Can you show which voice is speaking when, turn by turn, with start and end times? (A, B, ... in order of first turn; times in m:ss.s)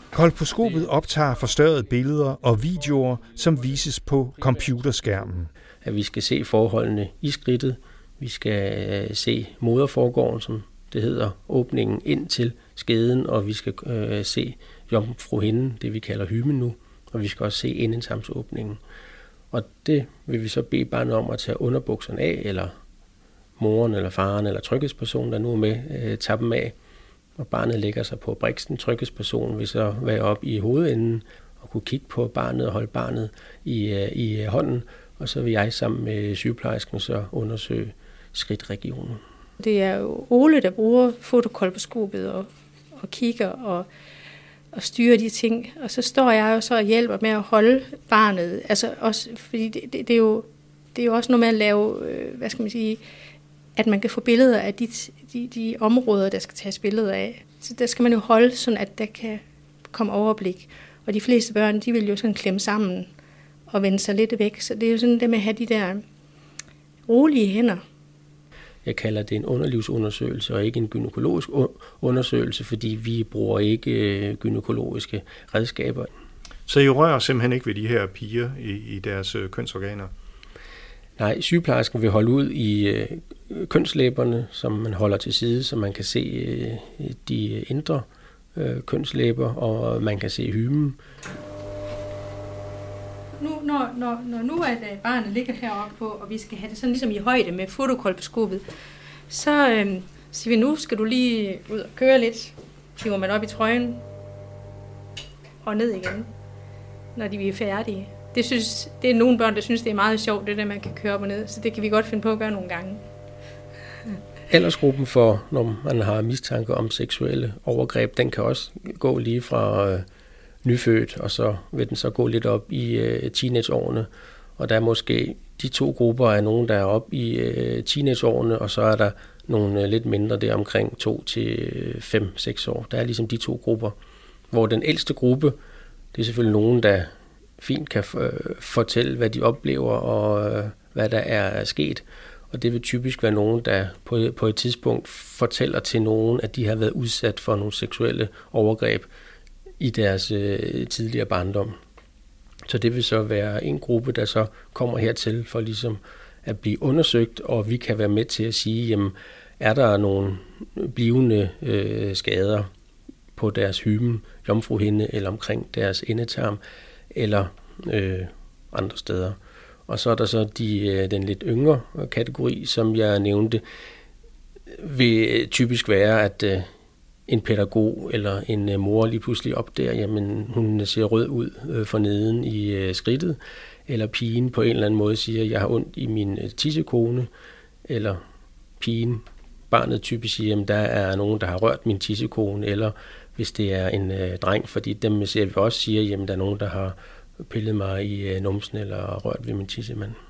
0:00.1-0:05.5 A
0:05.8-0:18.8 B
0:19.5-0:22.7 B
0:23.6-0:26.7 B
0:27.4-0:39.2 B
0:39.6-0:43.9 C
0:44.7-0:53.0 C
0:53.8-1:03.1 C
1:03.7-1:06.0 C
1:07.1-1:07.8 C
1:08.9-1:16.1 B
1:16.7-1:20.1 A
1:21.2-1:31.0 B
1:33.4-1:38.6 C
1:39.3-1:44.0 C
1:45.6-1:46.3 C
1:47.2-1:53.0 C
1:54.5-2:00.0 B
2:00.6-2:04.1 B
2:04.6-2:13.9 B
2:14.5-2:15.6 B
2:16.1-2:17.1 B
2:17.6-2:29.1 B
2:29.8-2:31.8 B
2:32.7-2:42.7 B
2:43.4-2:46.6 B
2:47.1-2:49.4 B
2:49.9-2:53.6 B
2:54.8-2:56.7 B
2:57.3-3:03.4 B
3:03.9-3:07.3 B
3:07.9-3:08.2 B
3:08.8-3:20.2 B